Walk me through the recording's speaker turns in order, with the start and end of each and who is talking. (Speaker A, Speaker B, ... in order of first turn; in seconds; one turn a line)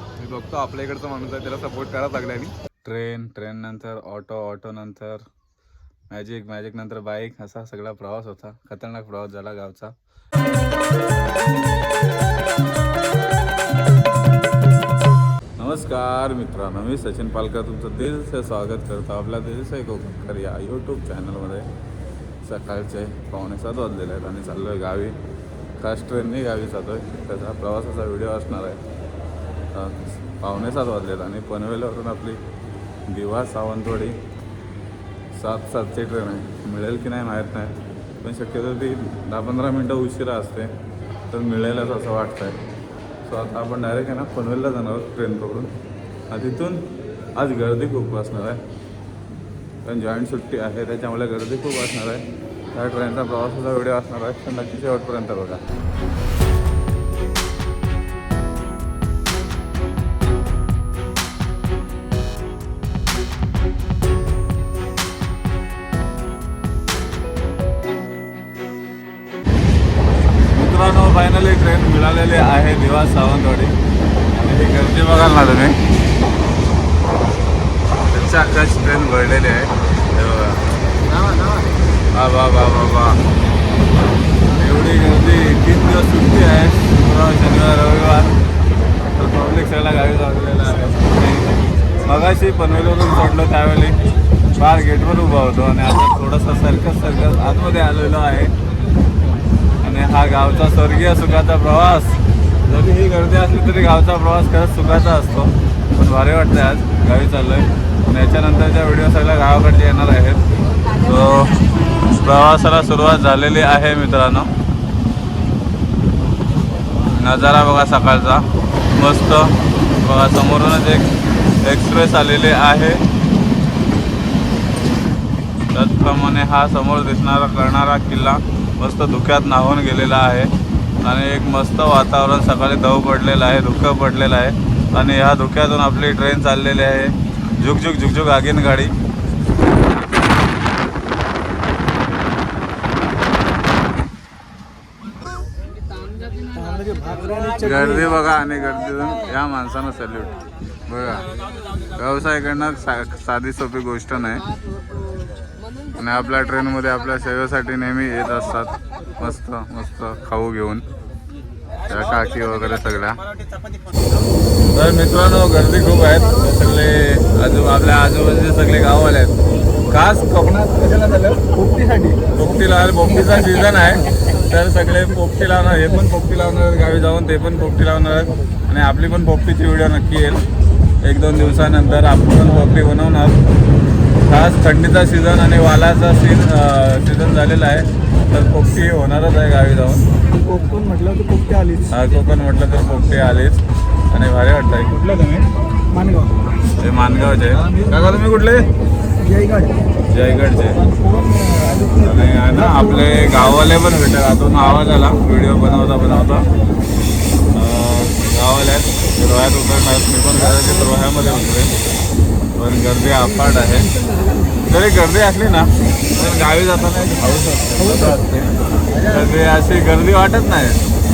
Speaker A: 0.2-2.5
Speaker B: 2.8-5.2
Speaker B: 6.1-9.9
Speaker B: 15.6-21.7
Speaker B: 22.4-25.2
Speaker B: 25.8-28.8
Speaker B: 29.7-32.4
Speaker B: 33.1-34.1
Speaker B: 35.3-40.7
Speaker B: 41.3-42.6
Speaker B: 43.2-45.7
Speaker B: 46.3-48.6
Speaker B: 49.8-55.6
Speaker B: 70.5-73.7
Speaker B: 74.3-75.8
Speaker B: 78.1-80.7
Speaker A: 81.2-81.5
Speaker B: 82.1-83.2
Speaker B: 84.5-88.3
Speaker B: 89.1-91.5
Speaker B: 92.0-94.0
Speaker B: 94.5-98.5
Speaker B: 99.8-110.4
Speaker B: 110.9-114.5
Speaker B: 117.1-123.0
Speaker B: 125.7-130.5
Speaker B: 131.0-138.9
Speaker A: 146.5-148.1
Speaker B: 147.6-151.3
Speaker B: 151.9-154.4
Speaker B: 155.9-160.8
Speaker B: 161.9-163.2
Speaker B: 164.7-169.3
Speaker B: 169.9-171.5
Speaker C: 171.6-172.2
Speaker B: 172.3-180.4
Speaker B: 181.0-183.4
Speaker B: 184.2-190.1
Speaker C: 190.4-191.9
Speaker B: 191.9-195.4
Speaker C: 195.9-196.4
Speaker B: 196.8-198.7
Speaker C: 199.2-199.8
Speaker B: 200.1-200.8
Speaker C: 200.9-203.2
Speaker B: 201.9-206.5
Speaker B: 207.5-211.7
Speaker B: 212.6-213.9
Speaker B: 214.6-220.8
Speaker C: 218.0-218.3